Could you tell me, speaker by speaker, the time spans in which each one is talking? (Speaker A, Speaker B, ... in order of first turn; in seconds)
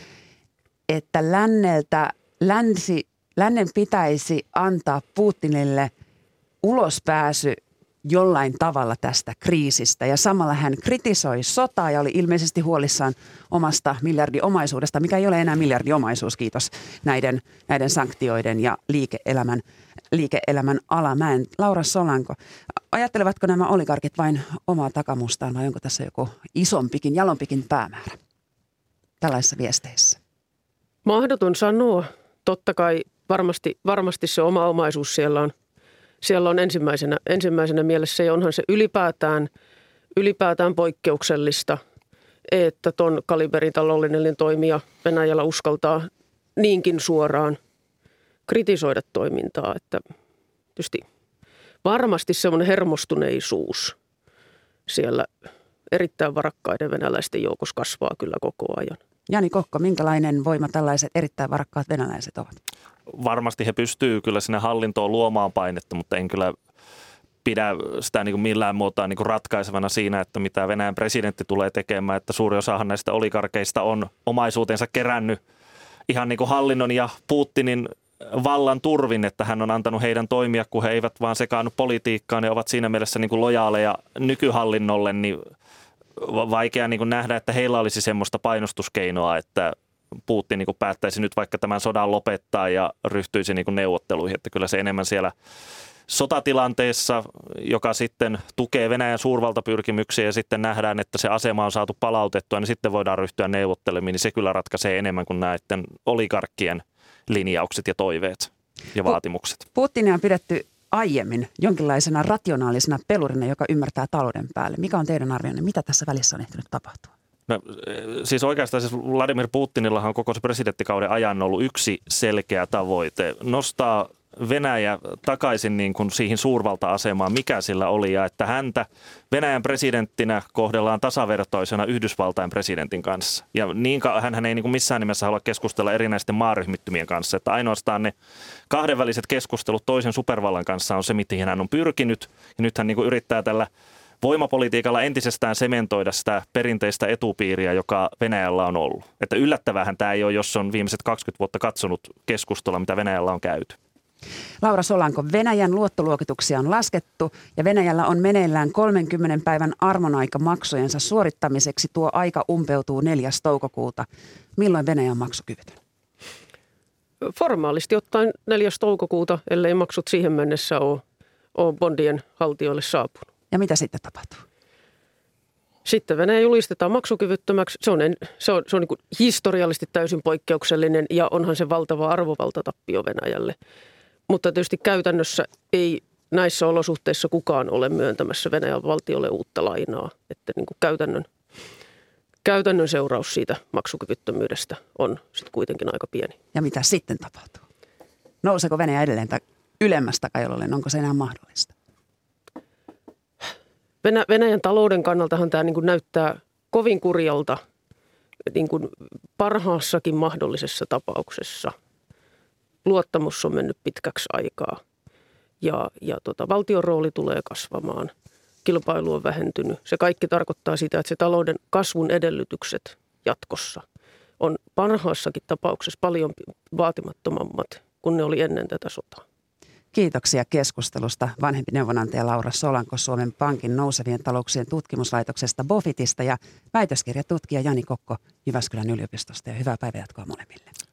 Speaker A: 0.9-5.9, 6.6-22.4, 22.9-28.2, 29.2-30.2, 59.3-62.6, 109.8-117.1, 154.6-165.8, 173.5-174.4, 196.5-197.7, 198.4-201.7, 229.9-240.7
Speaker B: 31.0-35.5, 36.2-39.5, 40.1-41.8, 42.5-47.6, 48.5-50.0, 50.8-51.1, 51.8-54.0, 54.9-55.3, 55.9-59.0, 167.2-171.0, 171.6-173.3, 175.8-183.6, 184.3-191.3, 192.4-196.4, 204.0-207.6, 208.5-211.8, 212.8-214.8, 215.6-218.1, 218.6-223.8, 224.4-229.2
Speaker C: 63.1-66.6, 67.4-75.4, 76.1-85.5, 86.2-89.8, 90.3-95.3, 96.1-109.6, 117.5-138.1, 138.7-143.7, 144.2-153.8